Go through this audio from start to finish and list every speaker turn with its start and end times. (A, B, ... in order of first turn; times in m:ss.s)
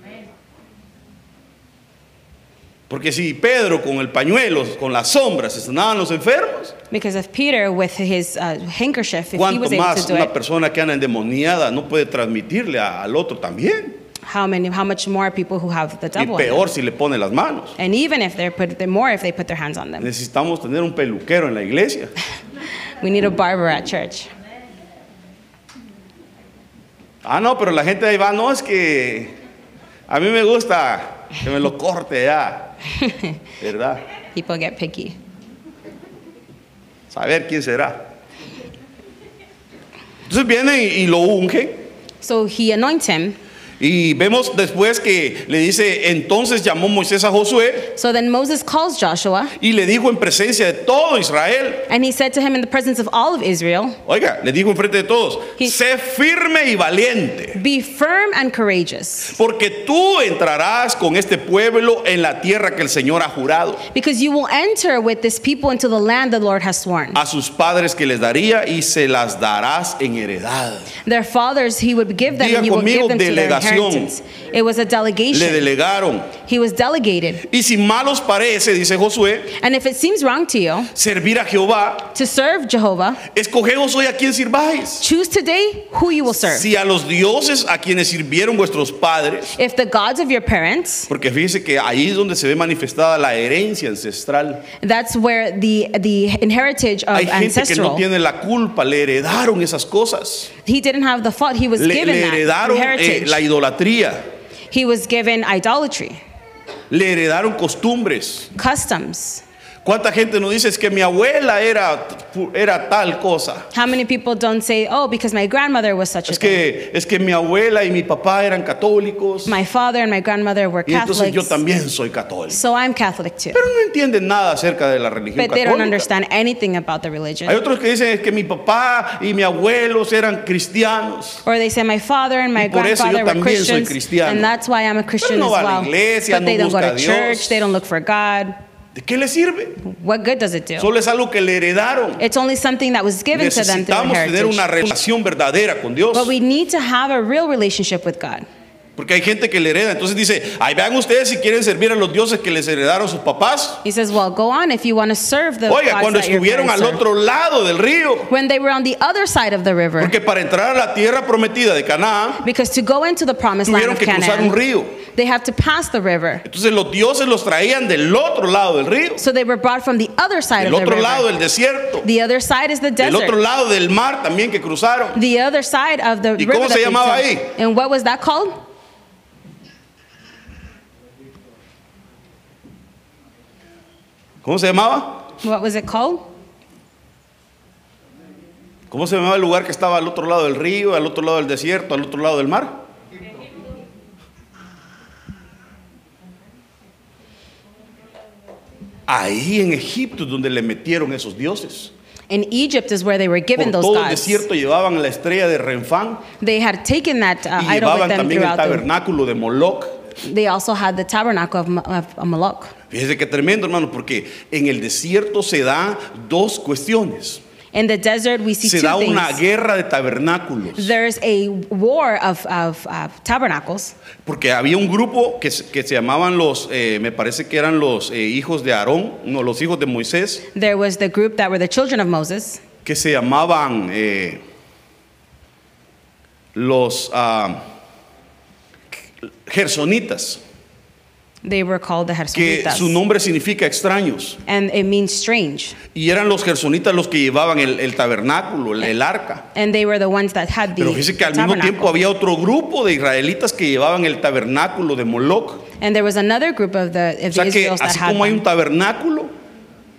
0:02.9-0:06.8 A
0:06.9-0:10.3 B
0:09.3-0:14.0 A
0:14.2-0:16.7 B
0:16.2-0:17.8 A
0:17.8-0:20.1 B
0:20.0-0:22.1 A
0:23.0-0:24.3 B
0:27.2-0:29.3 A
0:30.1-0:32.7 A
0:33.0-0:33.3 B
0:33.6-0:34.0 A
0:34.3-0:35.2 B
0:37.1-0:38.0 A
0:40.3-0:41.8 A
0:42.2-0:43.4 B
0:43.8-0:47.9 A
0:47.9-0:49.5 B
0:49.6-0:51.9 A
0:51.9-0:54.0 B
0:54.0-0:57.6 A
0:57.5-0:59.4 B
0:59.3-1:03.8 A
1:03.9-1:07.2 B
1:07.1-1:10.9 A
1:11.0-1:15.7 B
1:12.3-1:14.1 A
1:15.3-1:16.4 A
1:16.4-1:17.4 B
1:17.4-1:19.5 A
1:19.5-1:20.9 B
1:20.9-1:22.1 A
1:22.1-1:23.2 B
1:23.3-1:25.1 A
1:25.0-1:26.7 B
1:26.4-1:29.6 A
1:29.5-1:31.1 B
1:31.1-1:34.6 A
1:34.8-1:38.0 B
1:37.1-1:40.5 A
1:40.6-1:43.4 B
1:41.8-1:44.2 A
1:44.7-1:46.2 B
1:46.9-1:48.5 A
1:48.5-1:49.4 B
1:49.8-1:53.7 A
1:53.7-1:56.6 B
1:56.3-1:59.6 A
1:59.4-2:01.6 B
2:00.9-2:02.6 A
2:02.5-2:03.6 B
2:03.5-2:06.1 A
2:05.4-2:07.6 B
2:07.4-2:11.4 A
2:11.4-2:18.6 B
2:12.6-2:14.5 A
2:15.2-2:17.7 A
2:18.9-2:19.8 A
2:19.8-2:20.9 B
2:20.8-2:22.2 A
2:22.2-2:24.9 B
2:23.3-2:26.3 A
2:26.1-2:28.5 B
2:29.0-2:33.8 A
2:33.8-2:37.0 B
2:35.7-2:38.3 A
2:38.3-2:40.1 B
2:40.0-2:42.4 A
2:42.4-2:46.4 B
2:43.6-2:45.0 A
2:46.4-2:49.2 A
2:49.2-2:51.3 B
2:50.6-2:52.1 A
2:52.0-2:53.4 B
2:53.0-2:55.2 A
2:55.1-2:58.6 B
2:56.4-2:57.5 A
3:04.4-3:05.3 A
3:05.4-3:06.3 B
3:08.9-3:12.8 A
3:19.1-3:21.9 A
3:22.3-3:24.5 B
3:23.6-3:26.3 A
3:26.4-3:28.8 B
3:27.6-3:30.0 A
3:30.2-3:32.7 B
3:32.9-3:37.4 A
3:37.7-3:39.4 B
3:38.6-3:40.9 A
3:40.8-3:43.9 B
3:44.2-3:50.4 A
3:50.5-3:52.6 B
3:52.8-3:54.4 A
3:56.5-3:57.6 A
3:59.4-4:00.4 A
4:01.4-4:03.0 B
4:02.3-4:04.4 A
4:04.4-4:05.8 B
4:05.9-4:09.4 A
4:09.5-4:12.0 B
4:10.8-4:15.6 A
4:15.8-4:18.4 B
4:17.3-4:19.3 A